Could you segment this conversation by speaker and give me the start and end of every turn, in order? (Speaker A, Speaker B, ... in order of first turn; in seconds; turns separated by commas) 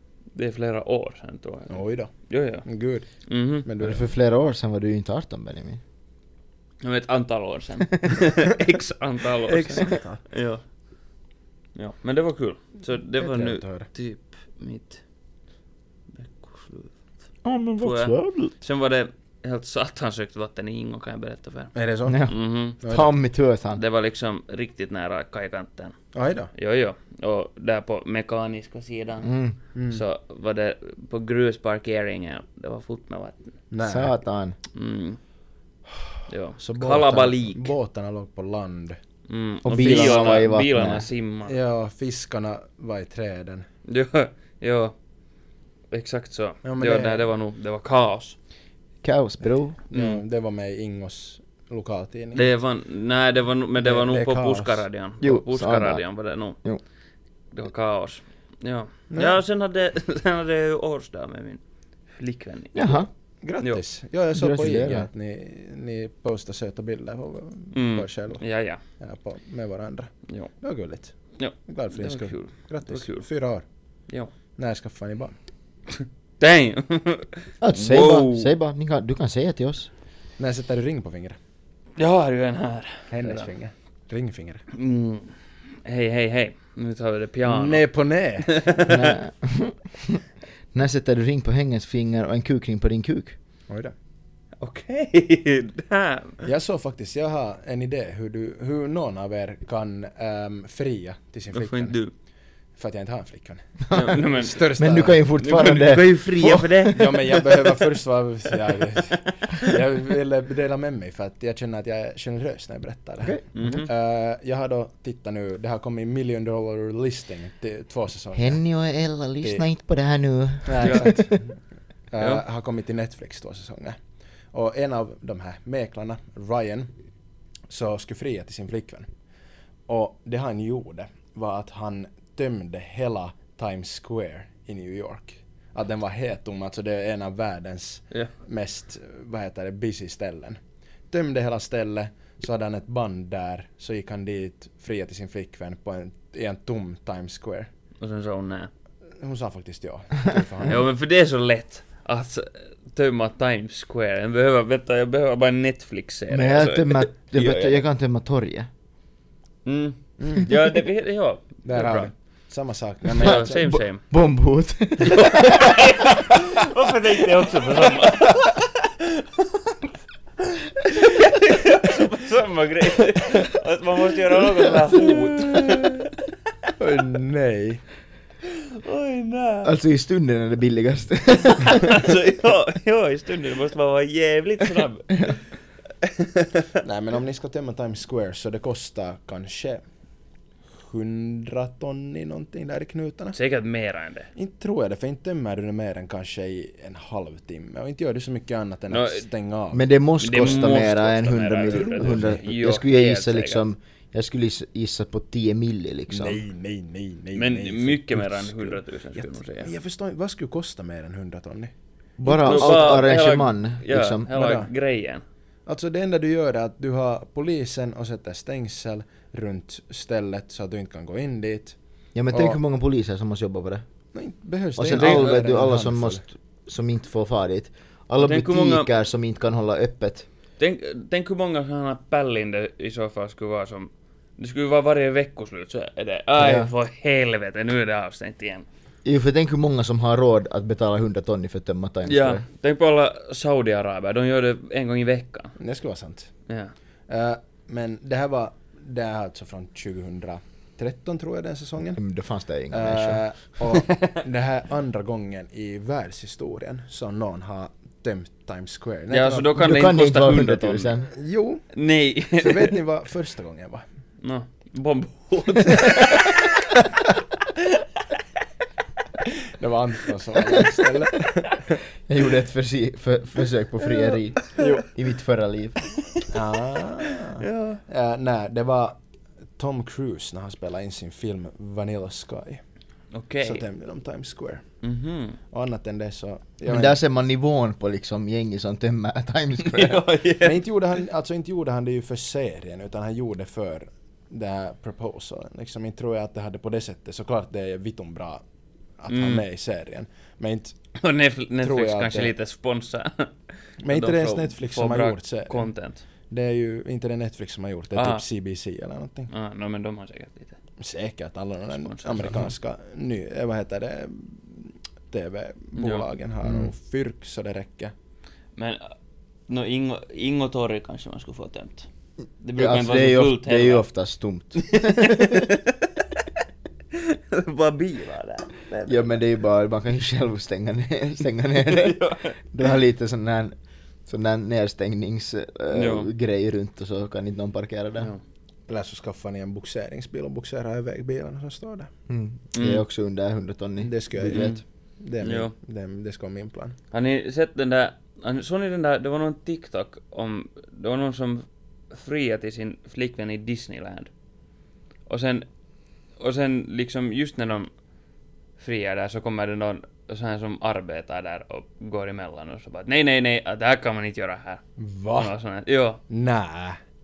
Speaker A: 0.3-2.6, Speaker B: 1.7-4.1, Speaker A: 3.2-3.6, Speaker C: 3.8-5.8, Speaker A: 6.8-10.6, Speaker B: 9.5-10.2, Speaker A: 11.7-15.0, Speaker B: 13.2-13.9, Speaker A: 16.2-17.0, Speaker C: 17.4-18.5, Speaker A: 17.8-21.7, Speaker B: 21.7-23.1, Speaker C: 22.1-23.8, Speaker A: 22.2-22.8, Speaker A: 23.7-25.9, Speaker B: 26.1-26.5, Speaker A: 26.5-29.3, Speaker C: 29.2-29.6, Speaker B: 29.7-30.0, Speaker A: 29.9-33.5, Speaker B: 33.7-34.1, Speaker C: 33.8-34.6, Speaker A: 34.7-35.2, Speaker A: 36.3-37.7, Speaker B: 36.6-39.0, Speaker A: 39.3-41.5, Speaker C: 39.6-41.1, Speaker B: 39.7-40.4, Speaker B: 41.5-43.6, Speaker A: 43.9-44.9, Speaker A: 45.9-48.4, Speaker B: 46.6-47.2, Speaker C: 49.0-49.8, Speaker B: 49.9-52.5, Speaker A: 49.9-50.2, Speaker A: 52.3-56.6, Speaker B: 53.8-54.8, Speaker C: 55.2-56.0, Speaker C: 56.5-56.8, Speaker A: 57.5-63.0, Speaker B: 59.1-59.4, Speaker C: 62.7-63.1, Speaker B: 63.4-68.4, Speaker C: 64.3-65.1, Speaker A: 67.7-68.8, Speaker B: 69.0-73.6, Speaker A: 71.4-73.3, Speaker B: 74.6-75.3, Speaker A: 75.9-78.5, Speaker C: 77.6-79.9, Speaker B: 80.4-81.4, Speaker A: 82.0-83.5, Speaker B: 83.1-84.6, Speaker A: 84.7-87.8, Speaker B: 87.5-89.1, Speaker A: 88.5-89.2, Speaker C: 88.9-93.4, Speaker A: 94.6-96.5, Speaker B: 96.4-102.0, Speaker A: 101.5-102.1, Speaker B: 102.8-105.2, Speaker C: 103.9-104.2, Speaker A: 103.9-104.7, Speaker C: 104.8-107.1, Speaker A: 105.4-107.8, Speaker B: 106.9-118.6, Speaker C: 113.2-113.8, Speaker A: 113.5-113.9, Speaker C: 118.3-121.1, Speaker B: 120.6-121.5, Speaker A: 120.8-121.1, Speaker B: 122.1-124.0, Speaker B: 124.5-126.9, Speaker B: 127.7-129.1, Speaker B: 129.9-140.6, Speaker B: 141.1-147.7, Speaker A: 148.0-148.7, Speaker B: 149.2-150.8, Speaker A: 150.6-157.8, Speaker C: 156.3-158.7, Speaker A: 159.6-162.1, Speaker B: 160.2-160.5, Speaker B: 161.6-163.6, Speaker A: 163.1-164.0, Speaker C: 163.2-165.8, Speaker A: 165.0-169.8, Speaker A: 170.8-176.1, Speaker B: 175.4-175.9, Speaker B: 176.8-177.8, Speaker A: 178.8-179.7, Speaker C: 179.6-182.0, Speaker A: 181.5-185.4, Speaker B: 186.8-189.8, Speaker B: 190.7-193.3, Speaker A: 193.3-194.3, Speaker B: 194.3-200.7, Speaker A: 198.9-199.2, Speaker C: 199.7-206.4, Speaker A: 200.2-203.6, Speaker B: 201.7-202.4, Speaker B: 206.1-211.7, Speaker A: 207.3-209.7, Speaker C: 212.2-214.3, Speaker A: 212.2-215.2, Speaker B: 212.3-213.1, Speaker B: 214.3-214.7, Speaker B: 215.7-221.8, Speaker C: 222.1-223.8, Speaker B: 222.3-222.6, Speaker B: 224.1-226.2, Speaker C: 224.8-230.3, Speaker A: 224.9-225.3, Speaker A: 228.2-228.9, Speaker A: 230.6-238.7, Speaker C: 236.4-236.7, Speaker C: 239.0-242.4, Speaker A: 242.1-245.6, Speaker B: 245.6-246.3, Speaker A: 246.5-246.7, Speaker B: 247.1-252.0, Speaker C: 251.9-253.2, Speaker B: 252.7-259.5, Speaker A: 253.7-254.2, Speaker A: 259.1-260.9, Speaker C: 259.6-261.1, Speaker B: 261.1-261.7, Speaker A: 261.7-262.7, Speaker B: 262.3-263.8, Speaker A: 264.2-266.7, Speaker B: 269.5-271.8, Speaker C: 272.1-275.8, Speaker B: 274.6-274.9, Speaker B: 276.3-279.0, Speaker A: 277.1-277.8, Speaker B: 279.6-282.6, Speaker A: 283.1-283.6, Speaker B: 283.4-284.6, Speaker A: 284.8-285.4, Speaker B: 285.5-287.0, Speaker C: 286.6-290.0, Speaker A: 289.6-290.6, Speaker B: 290.4-298.4, Speaker B: 299.0-300.8, Speaker A: 299.1-299.4, Speaker A: 300.9-303.3, Speaker B: 301.6-302.3, Speaker B: 303.8-305.7, Speaker A: 303.9-306.0, Speaker B: 306.3-309.3, Speaker A: 307.9-308.2, Speaker A: 309.3-310.6, Speaker B: 310.8-317.9, Speaker A: 311.7-312.5, Speaker A: 315.8-316.0, Speaker C: 316.4-316.7, Speaker A: 318.6-318.9, Speaker A: 319.5-321.9, Speaker A: 322.4-323.9, Speaker C: 322.6-325.5, Speaker A: 324.6-326.0, Speaker A: 326.9-329.2, Speaker C: 328.9-333.5, Speaker A: 331.6-332.4, Speaker C: 334.1-338.1, Speaker A: 335.7-336.1, Speaker B: 338.7-341.9, Speaker C: 342.1-344.5, Speaker A: 342.5-342.8, Speaker B: 343.8-346.8, Speaker A: 344.3-344.6, Speaker A: 345.2-345.5, Speaker A: 346.9-354.1, Speaker A: 355.1-355.5, Speaker A: 356.2-357.7, Speaker A: 358.6-364.6, Speaker B: 364.8-365.3, Speaker A: 365.1-366.0, Speaker B: 366.1-366.8